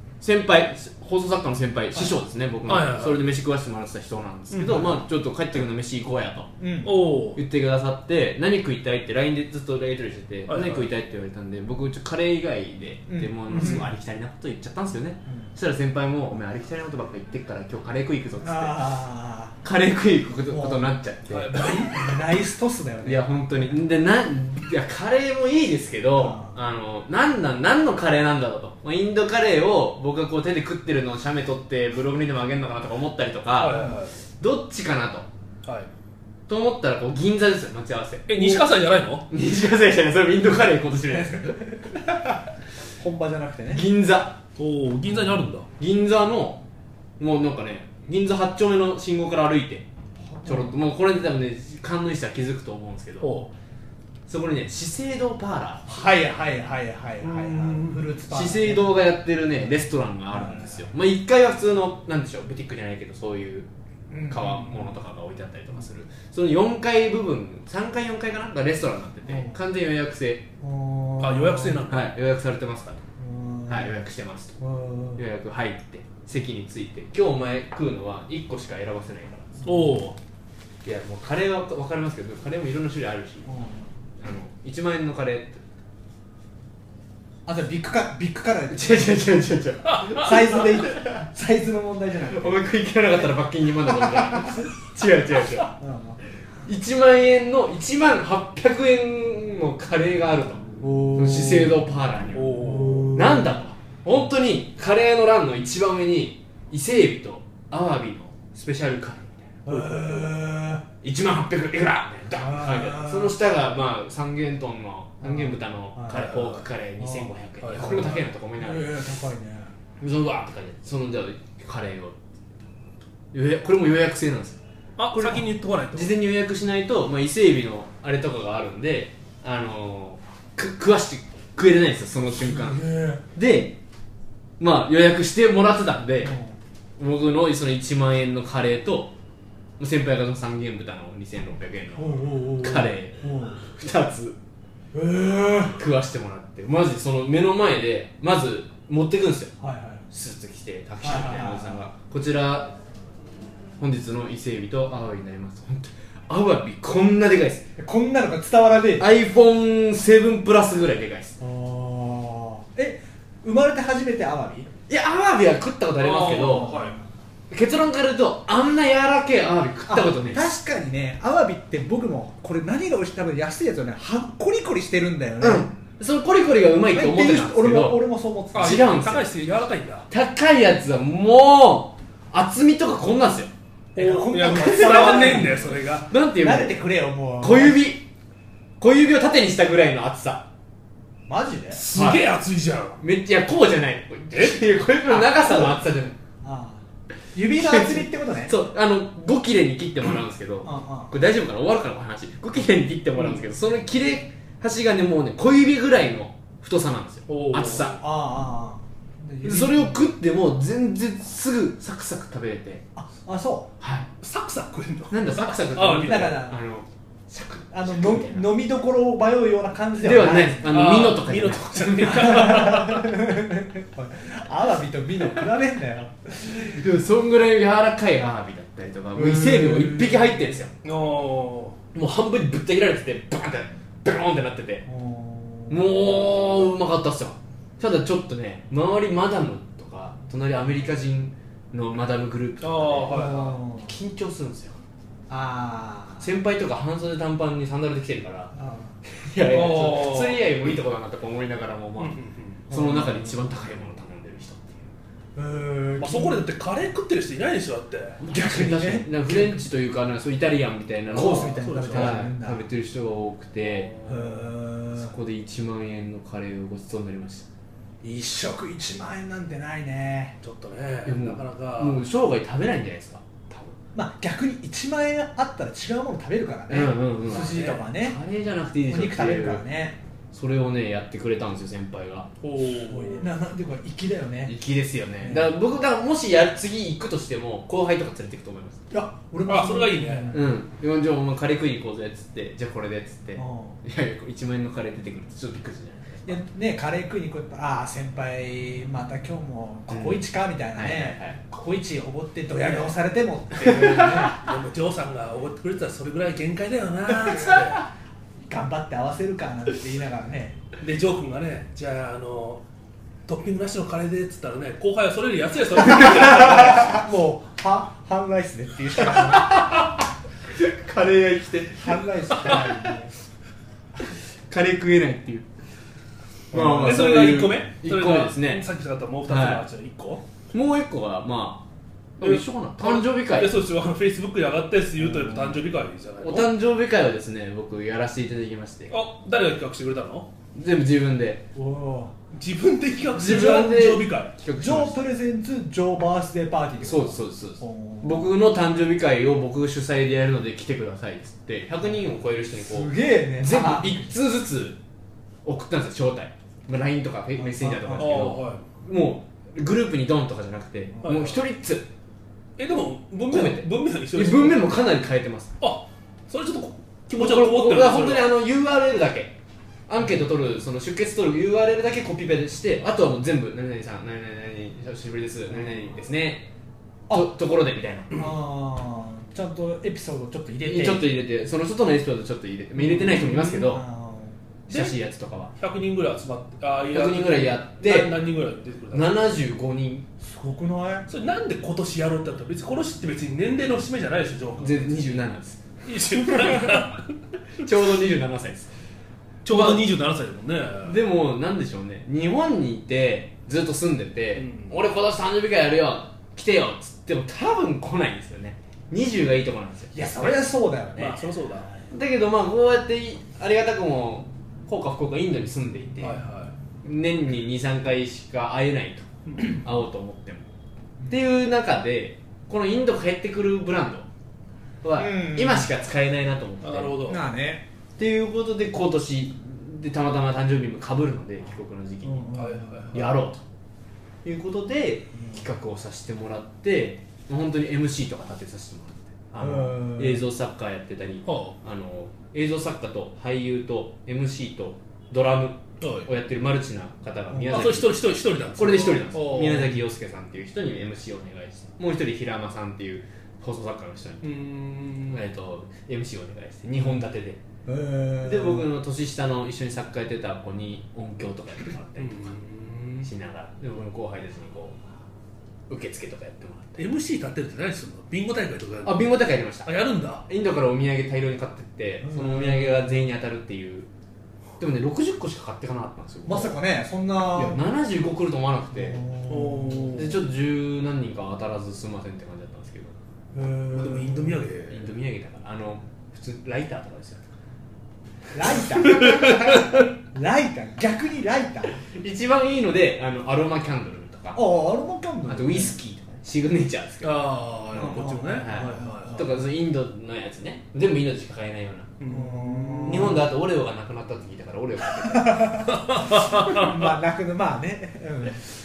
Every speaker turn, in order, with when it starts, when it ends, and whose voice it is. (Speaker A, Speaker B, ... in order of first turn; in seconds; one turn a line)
Speaker A: 0.2-6.5
Speaker B: 2.7-3.2
Speaker B: 4.5-4.9
Speaker C: 4.7-5.0
Speaker C: 6.6-6.9
Speaker B: 6.8-7.4
Speaker A: 7.3-18.9
Speaker B: 10.5-10.9
Speaker C: 13.1-13.9
Speaker C: 18.4-19.6
Speaker A: 19.6-21.5
Speaker C: 20.5-20.9
Speaker B: 21.3-22.2
Speaker C: 21.5-23.8
Speaker A: 23.0-35.3
Speaker C: 26.2-26.6
Speaker B: 33.6-34.2
Speaker C: 33.7-34.0
Speaker B: 35.6-35.9
Speaker A: 36.5-38.6
Speaker B: 38.3-39.3
Speaker A: 39.3-42.4
Speaker C: 41.1-42.0
Speaker C: 43.0-43.9
Speaker A: 43.7-44.4
Speaker B: 44.6-45.7
Speaker A: 45.8-46.6
Speaker A: 47.2-49.9
Speaker C: 50.2-50.8
Speaker A: 50.5-53.3
Speaker B: 53.2-53.5
Speaker A: 54.3-56.1
Speaker C: 55.9-59.0
Speaker B: 57.2-58.1
Speaker A: 58.3-63.7
Speaker C: 60.3-60.9
Speaker C: 64.1-65.0
Speaker A: 64.3-70.5
Speaker C: 69.3-69.6
Speaker C: 70.6-71.8
Speaker B: 71.2-72.1
Speaker A: 71.9-73.0
Speaker C: 73.2-74.0
Speaker A: 73.7-74.6
Speaker C: 74.6-75.2
Speaker A: 75.2-79.6
Speaker B: 79.7-80.2
Speaker A: 80.8-83.5
Speaker C: 83.5-83.9
Speaker A: 84.2-85.6
Speaker C: 87.5-89.3
Speaker A: 88.7-91.2
Speaker B: 89.8-90.8
Speaker C: 90.0-92.7
Speaker A: 92.3-95.7
Speaker C: 93.9-94.7
Speaker C: 95.6-96.2
Speaker A: 96.6-109.5
Speaker C: 100.8-101.8
Speaker B: 102.3-103.1
Speaker C: 102.6-103.6
Speaker C: 109.7-110.9
Speaker B: 109.7-110.3
Speaker A: 111.0-119.0
Speaker C: 112.4-113.4
Speaker C: 115.2-116.2
Speaker B: 116.1-116.7
Speaker C: 117.0-119.7
Speaker B: 117.6-118.2
Speaker A: 120.0-122.2
Speaker A: 123.3-124.6
Speaker B: 125.0-126.1
Speaker A: 125.2-132.8
Speaker C: 132.4-133.2
Speaker A: 133.3-133.8
Speaker A: 134.6-136.4
Speaker C: 136.2-136.6
Speaker A: 137.0-139.1
Speaker A: 139.8-144.4
Speaker C: 142.0-143.7
Speaker C: 144.9-145.8
Speaker A: 145.7-149.5
Speaker C: 149.6-150.1
Speaker A: 150.1-152.7
Speaker C: 151.0-151.8
Speaker A: 153.8-157.7
Speaker C: 157.8-159.1
Speaker A: 159.0-161.4
Speaker C: 161.4-164.7
Speaker A: 164.9-166.8
Speaker B: 166.0-167.0
Speaker C: 166.4-167.1
Speaker A: 167.5-170.4
Speaker C: 169.9-175.8
Speaker A: 175.4-178.0
Speaker C: 176.9-179.1
Speaker A: 178.5-179.3
Speaker B: 178.5-180.1
Speaker A: 180.1-183.5
Speaker B: 183.9-186.1
Speaker C: 184.0-187.8
Speaker A: 184.5-186.8
Speaker A: 187.4-188.1
Speaker A: 188.8-190.5
Speaker C: 191.3-191.8
Speaker B: 191.7-193.0
Speaker A: 191.9-192.2
Speaker A: 193.0-196.2
Speaker B: 194.3-194.6
Speaker C: 195.1-195.8
Speaker C: 196.4-196.8
Speaker C: 197.3-198.5
Speaker A: 197.6-208.0
Speaker C: 200.6-201.1
Speaker B: 207.3-208.0
Speaker C: 207.9-210.1
Speaker A: 209.4-212.8
Speaker C: 212.9-213.7
Speaker A: 213.8-214.1
Speaker B: 214.2-216.4
Speaker A: 215.1-218.5
Speaker C: 215.9-216.6
Speaker C: 217.7-220.7
Speaker A: 220.0-222.8
Speaker B: 220.7-223.1
Speaker C: 222.1-226.8
Speaker A: 226.4-230.7
Speaker C: 229.1-230.6
Speaker B: 230.8-231.8
Speaker A: 231.9-234.9
Speaker C: 234.9-235.9
Speaker A: 235.7-244.8
Speaker B: 242.6-243.6
Speaker C: 243.1-243.9
Speaker C: 245.3-246.3
Speaker A: 246.2-248.5
Speaker C: 248.5-248.9
Speaker A: 249.1-252.2
Speaker B: 249.5-250.5
Speaker B: 252.0-252.6
Speaker C: 252.7-253.3
Speaker A: 252.7-254.8
Speaker C: 255.4-256.5
Speaker B: 256.0-258.2
Speaker A: 258.2-263.9
Speaker C: 258.2-259.7
Speaker B: 261.1-262.2
Speaker C: 261.1-262.7
Speaker B: 263.7-264.4
Speaker C: 264.1-265.1
Speaker A: 264.9-267.5
Speaker C: 268.0-270.4
Speaker B: 270.4-272.0
Speaker A: 271.1-273.8
Speaker C: 273.9-278.2
Speaker A: 276.7-279.6
Speaker B: 277.3-277.8
Speaker C: 278.9-280.0
Speaker A: 280.3-282.3
Speaker B: 282.4-283.3
Speaker C: 282.7-284.6
Speaker A: 284.5-288.8
Speaker C: 285.2-285.5
Speaker C: 288.9-290.6
Speaker B: 289.5-290.4
Speaker A: 290.3-296.4
Speaker C: 293.4-293.8
Speaker C: 296.2-304.4
Speaker A: 299.9-301.4
Speaker A: 303.6-304.4
Speaker B: 304.2-307.9
Speaker C: 307.2-307.6
Speaker C: 308.5-310.6
Speaker B: 310.8-312.6
Speaker B: 313.3-317.1
Speaker C: 316.0-319.5
Speaker A: 319.1-319.9
Speaker A: 320.6-322.7
Speaker C: 321.8-323.1
Speaker A: 324.5-325.5
Speaker C: 326.5-327.3
Speaker A: 326.5-328.6
Speaker B: 326.8-330.2
Speaker A: 329.3-329.7
Speaker A: 330.5-331.6
Speaker A: 332.2-333.5
Speaker B: 332.2-336.5
Speaker C: 335.0-335.6
Speaker A: 336.2-338.9
Speaker B: 338.9-340.3
Speaker A: 340.6-341.4
Speaker C: 341.6-342.1
Speaker B: 342.3-344.3
Speaker A: 343.1-345.0
Speaker C: 344.6-348.3
Speaker A: 346.8-354.8
Speaker C: 352.5-354.2
Speaker A: 355.4-361.9
Speaker C: 357.4-358.5
Speaker B: 357.9-358.6
Speaker B: 361.0-361.5
Speaker B: 362.6-364.8
Speaker A: 363.3-365.6
Speaker B: 365.6-368.3
Speaker A: 367.1-369.4
Speaker A: 369.9-376.5
Speaker C: 377.1-377.4
Speaker A: 377.1-378.3
Speaker C: 378.1-381.1
Speaker A: 380.6-383.8
Speaker C: 382.8-384.4
Speaker B: 383.1-383.4
Speaker B: 384.7-385.0
Speaker A: 384.7-385.5
Speaker B: 385.6-389.2
Speaker A: 386.9-388.1
Speaker A: 388.9-390.1
Speaker C: 390.2-391.1
Speaker B: 391.1-395.0
Speaker A: 394.6-395.6
Speaker B: 395.9-397.1
Speaker A: 396.2-396.8
Speaker A: 397.6-398.7
Speaker B: 399.4-401.0
Speaker A: 399.5-399.8
Speaker A: 400.8-410.4
Speaker B: 404.4-404.8
Speaker C: 409.9-411.7
Speaker B: 410.9-411.7
Speaker A: 411.9-416.2
Speaker B: 416.0-416.5
Speaker A: 416.8-420.5
Speaker A: 421.1-424.1
Speaker A: 424.8-427.1
Speaker C: 425.0-425.7
Speaker B: 426.6-427.2
Speaker C: 427.1-427.6
Speaker A: 428.0-432.4
Speaker C: 432.0-433.1
Speaker B: 432.3-433.2
Speaker A: 432.9-433.4
Speaker A: 434.2-454.3
Speaker C: 435.2-435.4
Speaker C: 439.4-440.2
Speaker B: 441.3-441.6
Speaker B: 445.8-446.1
Speaker B: 447.4-449.8
Speaker B: 454.2-455.2
Speaker A: 455.1-457.4
Speaker C: 457.7-458.7
Speaker A: 458.2-462.4
Speaker B: 462.0-463.1
Speaker A: 463.0-464.8
Speaker A: 465.7-466.8
Speaker B: 466.8-470.2
Speaker A: 468.8-469.7
Speaker A: 470.2-473.9
Speaker C: 472.0-473.0
Speaker A: 474.6-476.6
Speaker C: 476.2-477.6
Speaker A: 477.3-479.0
Speaker C: 478.7-480.1
Speaker B: 479.3-480.2
Speaker A: 479.9-483.0
Speaker C: 483.3-484.5
Speaker B: 483.7-484.9
Speaker A: 484.7-487.3
Speaker C: 488.3-491.8
Speaker B: 489.2-489.8
Speaker A: 491.8-494.4
Speaker C: 494.4-495.8
Speaker A: 495.3-497.3
Speaker B: 497.0-499.3
Speaker C: 497.8-499.5
Speaker A: 497.8-501.9
Speaker B: 502.0-503.2
Speaker C: 502.1-503.3
Speaker A: 502.8-505.7
Speaker C: 505.1-508.4
Speaker B: 505.7-506.9